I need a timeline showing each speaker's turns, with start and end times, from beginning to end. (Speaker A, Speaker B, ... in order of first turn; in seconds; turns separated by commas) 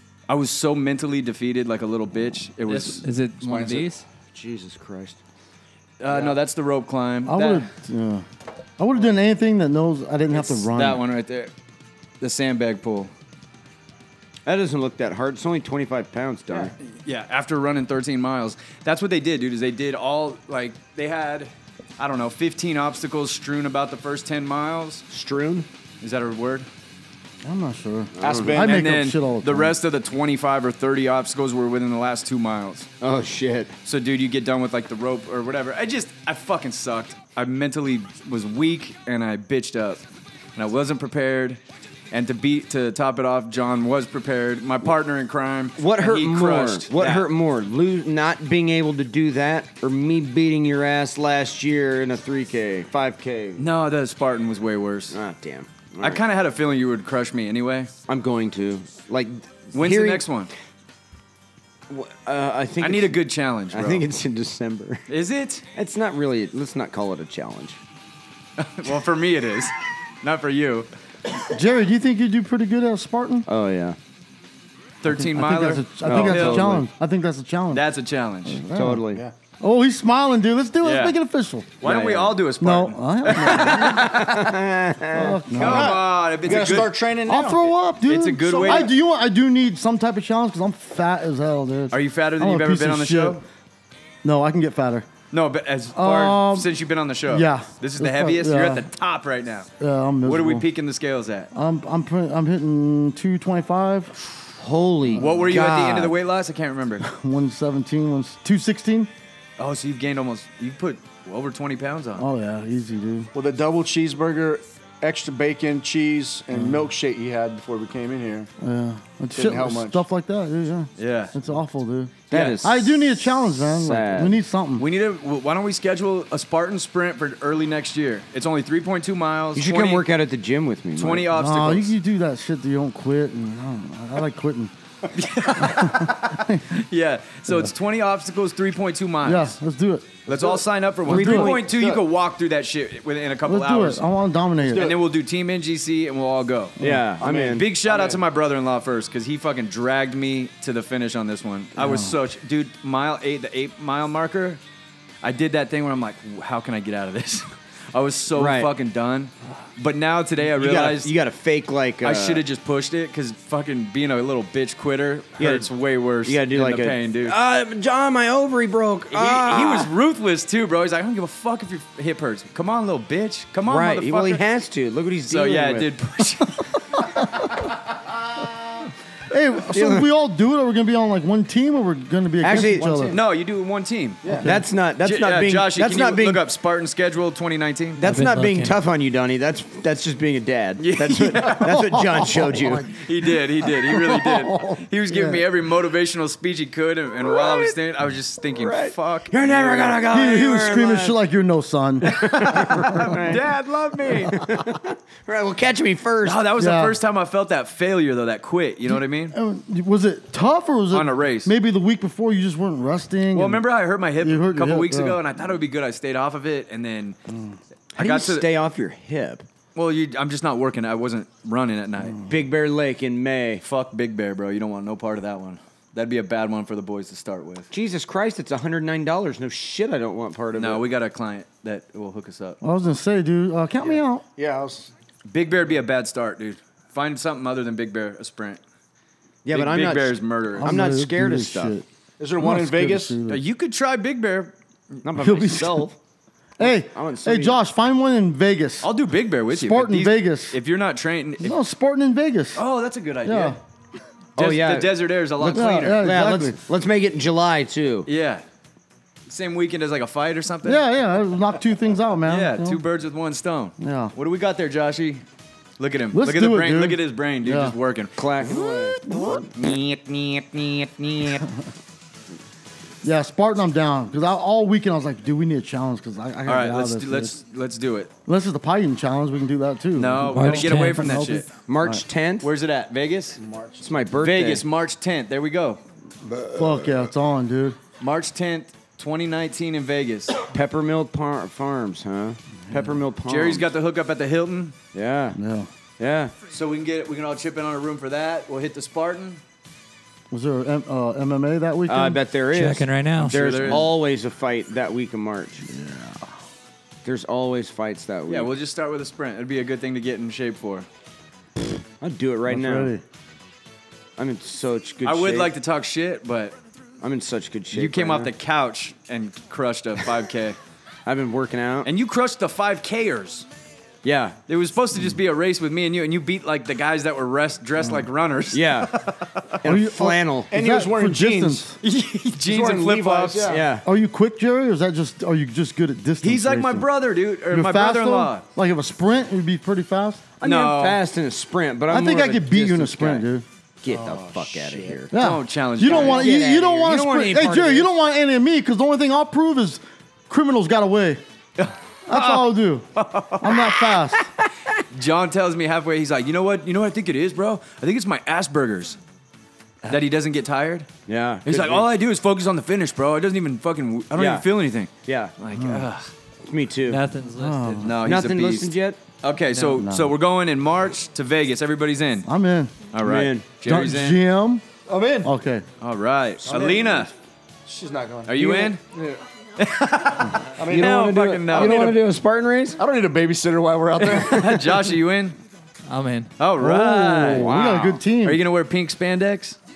Speaker A: 0.3-3.0, Speaker B: 2.6-4.0, Speaker C: 3.4-3.9, Speaker D: 4.3-5.2, Speaker A: 6.0-7.7, Speaker C: 6.1-6.3, Speaker E: 7.2-8.2, Speaker E: 8.8-11.0, Speaker A: 10.3-11.5, Speaker A: 12.2-13.1, Speaker D: 14.4-16.7, Speaker A: 17.0-25.0, Speaker D: 25.1-25.7, Speaker A: 26.0-26.7, Speaker E: 27.4-29.8, Speaker D: 28.2-28.6, Speaker C: 28.2-28.8, Speaker A: 28.6-32.9, Speaker D: 33.0-33.7, Speaker A: 33.8-40.0, Speaker A: 40.5-41.6, Speaker A: 42.1-47.2, Speaker D: 45.8-53.6, Speaker A: 53.6-55.2, Speaker D: 55.1-56.2, Speaker A: 56.0-57.9, Speaker D: 58.1-60.2, Speaker A: 59.7-60.5, Speaker D: 61.9-65.0, Speaker A: 62.8-64.1, Speaker A: 65.1-65.6, Speaker D: 65.7-67.8, Speaker A: 68.6-70.9, Speaker E: 71.5-73.5, Speaker D: 73.5-74.0, Speaker A: 75.0-76.7, Speaker E: 75.0-77.8, Speaker D: 76.0-76.8, Speaker A: 77.7-78.6, Speaker E: 78.4-79.1, Speaker D: 78.7-79.2, Speaker E: 79.6-81.7, Speaker A: 80.8-81.2, Speaker A: 81.8-84.5, Speaker D: 81.8-82.4, Speaker E: 82.6-84.1, Speaker D: 83.3-85.4, Speaker E: 85.1-86.0, Speaker A: 85.5-86.9, Speaker C: 85.5-87.7, Speaker E: 87.3-93.4, Speaker A: 88.1-88.9, Speaker C: 88.5-88.9, Speaker A: 91.9-93.4, Speaker E: 94.2-95.1, Speaker A: 95.3-99.7, Speaker E: 95.9-96.7, Speaker E: 97.3-98.9, Speaker E: 99.8-100.7, Speaker A: 100.2-101.5, Speaker E: 101.5-104.2, Speaker D: 104.6-106.1, Speaker A: 105.2-107.1, Speaker E: 107.0-109.1, Speaker A: 109.6-112.2, Speaker E: 112.2-113.3, Speaker C: 113.3-118.5, Speaker E: 116.5-116.8, Speaker E: 118.6-124.8, Speaker C: 119.3-120.0, Speaker A: 121.0-121.3, Speaker D: 122.3-123.1, Speaker A: 122.3-122.6, Speaker D: 123.6-124.3, Speaker A: 124.8-130.0, Speaker D: 129.5-131.3, Speaker A: 131.0-131.9, Speaker E: 131.3-134.7, Speaker A: 135.1-139.6, Speaker E: 135.5-136.8, Speaker E: 139.2-140.2, Speaker A: 140.2-144.0, Speaker C: 140.3-140.6, Speaker D: 141.1-141.7, Speaker E: 141.1-141.5, Speaker C: 141.3-142.0, Speaker E: 143.4-144.9, Speaker A: 144.7-146.8, Speaker C: 144.7-144.9, Speaker E: 146.8-147.1, Speaker D: 146.8-147.7, Speaker C: 147.2-148.2, Speaker A: 147.5-154.6, Speaker E: 151.8-152.2, Speaker A: 155.2-161.1, Speaker D: 158.3-158.7, Speaker D: 160.4-162.4, Speaker A: 162.0-167.3, Speaker D: 165.4-165.7, Speaker D: 166.2-169.9, Speaker A: 169.1-174.4, Speaker D: 173.6-175.9, Speaker A: 175.3-176.7, Speaker E: 177.1-177.4, Speaker E: 179.3-183.2, Speaker D: 179.7-180.1, Speaker D: 182.4-183.0, Speaker C: 182.8-183.2, Speaker A: 183.1-188.0, Speaker C: 184.2-184.5, Speaker D: 184.4-186.4, Speaker D: 188.0-192.9, Speaker B: 188.0-188.8, Speaker A: 190.8-200.0, Speaker E: 192.2-195.4, Speaker D: 197.3-197.7, Speaker D: 198.6-201.2, Speaker E: 200.1-203.0, Speaker A: 202.0-204.4, Speaker D: 202.1-203.4, Speaker D: 204.2-206.4, Speaker A: 206.2-209.3, Speaker E: 206.6-207.0, Speaker E: 208.9-213.7, Speaker A: 210.9-211.5, Speaker A: 213.3-217.2, Speaker E: 214.2-215.2, Speaker E: 217.3-217.6, Speaker A: 217.9-218.5, Speaker D: 217.9-219.4, Speaker A: 219.7-222.2, Speaker D: 222.2-223.6, Speaker A: 223.6-227.7, Speaker D: 227.7-230.8, Speaker A: 230.6-232.6, Speaker E: 232.6-234.2, Speaker C: 233.8-234.9, Speaker A: 235.2-238.6, Speaker D: 239.4-241.8, Speaker A: 239.5-240.8, Speaker E: 240.6-241.8, Speaker C: 242.2-243.2, Speaker E: 242.4-243.4, Speaker A: 243.3-245.0, Speaker D: 245.0-245.9, Speaker E: 245.2-245.9, Speaker E: 246.6-248.9, Speaker D: 246.6-247.6, Speaker A: 248.8-251.6, Speaker E: 249.5-250.6, Speaker E: 251.4-252.6, Speaker A: 252.5-253.6, Speaker E: 253.2-253.6, Speaker A: 254.4-256.0, Speaker D: 254.4-258.1, Speaker E: 255.5-256.6, Speaker A: 258.1-258.4, Speaker A: 259.3-260.8, Speaker E: 260.6-262.8, Speaker A: 262.2-265.2, Speaker E: 263.8-264.1, Speaker A: 265.8-268.2, Speaker E: 266.1-267.7, Speaker D: 268.2-269.4, Speaker A: 269.1-271.4, Speaker E: 271.2-271.6, Speaker E: 273.0-277.3, Speaker A: 276.5-278.1, Speaker E: 278.2-282.0, Speaker A: 279.9-281.5, Speaker B: 280.2-281.0, Speaker D: 281.7-282.5, Speaker A: 282.4-283.4, Speaker C: 283.4-283.8, Speaker D: 283.8-284.6, Speaker A: 284.2-285.8, Speaker E: 286.5-287.8, Speaker A: 288.0-290.4, Speaker D: 290.5-293.6, Speaker A: 293.3-294.7, Speaker D: 294.9-295.4, Speaker E: 295.3-295.7, Speaker D: 296.0-296.3, Speaker A: 296.5-299.4, Speaker E: 300.3-302.2, Speaker D: 301.9-305.6, Speaker B: 302.5-303.6, Speaker A: 303.2-303.9, Speaker E: 305.6-306.3, Speaker D: 307.0-308.5, Speaker A: 308.3-310.9, Speaker D: 312.0-312.9, Speaker E: 312.5-313.0, Speaker D: 314.2-315.5, Speaker A: 315.0-316.6, Speaker D: 317.0-318.3, Speaker A: 317.7-320.6, Speaker D: 321.0-321.9, Speaker A: 321.8-323.4, Speaker D: 324.0-324.4, Speaker A: 324.5-329.6, Speaker D: 328.5-328.9, Speaker D: 329.6-330.5, Speaker E: 329.6-331.7, Speaker C: 330.5-331.7, Speaker A: 331.8-333.6, Speaker C: 332.4-333.7, Speaker D: 333.4-333.8, Speaker E: 333.8-336.9, Speaker A: 336.2-338.4, Speaker E: 337.4-340.3, Speaker A: 340.4-341.0, Speaker D: 340.4-343.2, Speaker E: 341.9-343.4, Speaker D: 343.8-345.1, Speaker C: 343.9-345.0, Speaker E: 345.1-351.2, Speaker A: 345.1-346.3, Speaker D: 345.8-347.9, Speaker A: 351.6-353.8, Speaker E: 352.1-352.9, Speaker E: 353.4-354.3, Speaker A: 354.9-359.0, Speaker A: 359.8-360.9, Speaker D: 361.1-361.9, Speaker A: 361.4-366.1, Speaker D: 364.1-364.5, Speaker D: 365.0-365.3, Speaker E: 365.5-365.9, Speaker D: 366.4-367.0, Speaker B: 366.9-368.0, Speaker E: 367.4-367.9, Speaker A: 367.8-372.3, Speaker D: 368.0-369.0, Speaker E: 369.5-370.1, Speaker E: 372.2-372.8, Speaker A: 372.9-374.2, Speaker D: 373.0-373.4, Speaker E: 373.6-374.7, Speaker C: 374.9-375.3, Speaker E: 375.2-375.6, Speaker A: 375.8-377.1, Speaker C: 376.4-377.1, Speaker C: 377.6-379.2, Speaker A: 378.2-378.8, Speaker A: 379.6-382.0, Speaker C: 380.5-382.0, Speaker D: 380.6-382.8, Speaker C: 382.8-384.6, Speaker A: 384.0-385.4, Speaker B: 385.9-386.3, Speaker A: 386.4-387.6, Speaker E: 386.6-388.4, Speaker D: 387.4-388.0, Speaker A: 388.2-389.6